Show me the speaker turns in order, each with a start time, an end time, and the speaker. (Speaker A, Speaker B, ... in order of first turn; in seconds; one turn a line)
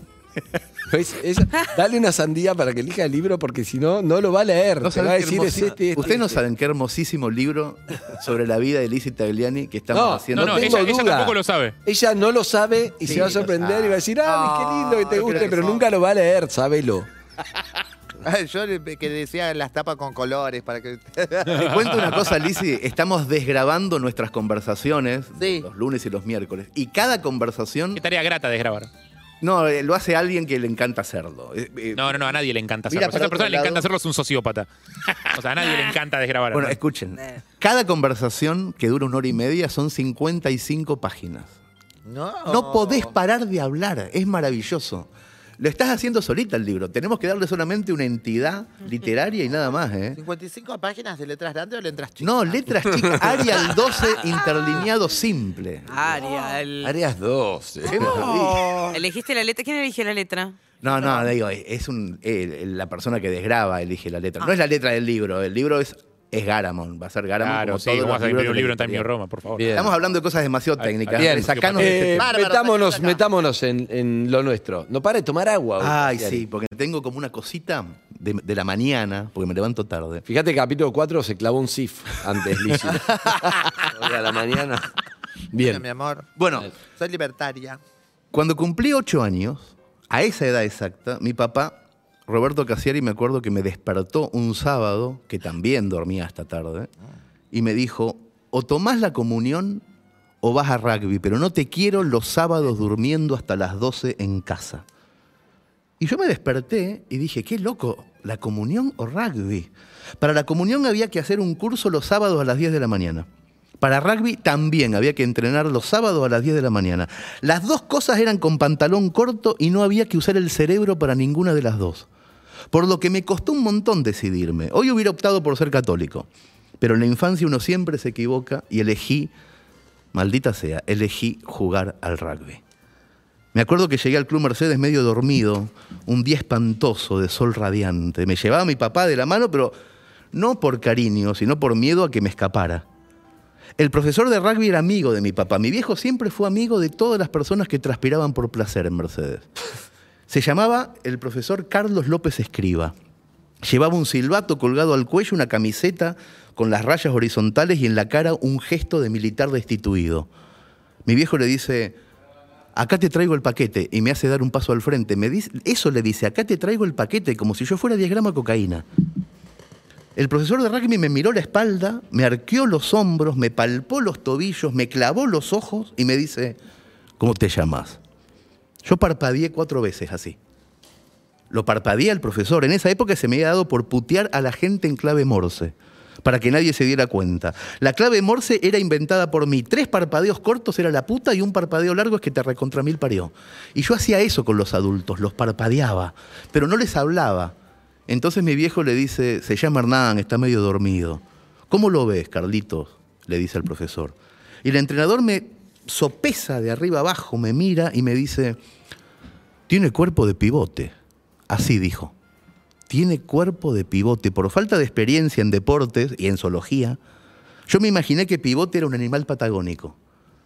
Speaker A: 0.9-6.3
Speaker B: 4.8-11.0
Speaker A: 9.9-17.1
Speaker C: 10.3-11.7
Speaker B: 13.0-14.0
Speaker D: 14.2-15.8
Speaker B: 15.1-15.8
Speaker D: 18.2-21.7
Speaker C: 21.5-22.2
Speaker B: 21.5-28.0
Speaker D: 25.4-25.6
Speaker C: 27.9-28.9
Speaker B: 29.4-32.4
Speaker C: 31.9-36.8
Speaker B: 32.9-33.9
Speaker B: 36.5-41.5
Speaker D: 42.0-43.1
Speaker B: 42.5-50.2
Speaker D: 50.1-53.1
Speaker B: 52.2-56.1
Speaker A: 52.9-53.7
Speaker E: 55.9-56.9
Speaker D: 56.2-56.5
Speaker A: 56.8-58.2
Speaker D: 57.9-59.0
Speaker B: 57.9-58.7
Speaker E: 57.9-60.6
Speaker B: 60.8-69.1
Speaker D: 60.9-61.2
Speaker C: 67.4-69.7
Speaker A: 69.6-69.9
Speaker B: 69.7-72.3
Speaker C: 70.8-72.0
Speaker A: 71.1-76.4
Speaker D: 72.1-73.2
Speaker B: 75.8-80.2
Speaker A: 80.2-84.9
Speaker A: 85.5-85.8
Speaker D: 85.6-86.3
Speaker B: 86.4-86.7
Speaker D: 86.9-87.8
Speaker B: 88.3-96.9
Speaker B: 97.5-99.8
Speaker B: 100.4-104.8
Speaker B: 106.0-113.3
Speaker B: 113.8-122.1
Speaker B: 122.7-126.3
Speaker B: 126.8-129.3
Speaker B: 130.1-132.6
Speaker B: 133.5-139.8
Speaker B: 140.3-142.8
Speaker B: 143.8-149.5
Speaker B: 150.3-152.9
Speaker B: 153.6-160.3
Speaker B: 161.0-162.0
Speaker B: 162.7-168.8
Speaker B: 170.2-176.6
Speaker B: 177.2-178.0
Speaker B: 178.8-180.4
Speaker B: 181.5-197.5
Speaker B: 198.1-208.6
Speaker B: 209.7-210.9
Speaker B: 211.5-212.1
Speaker B: 212.9-217.0
Speaker B: 217.7-219.9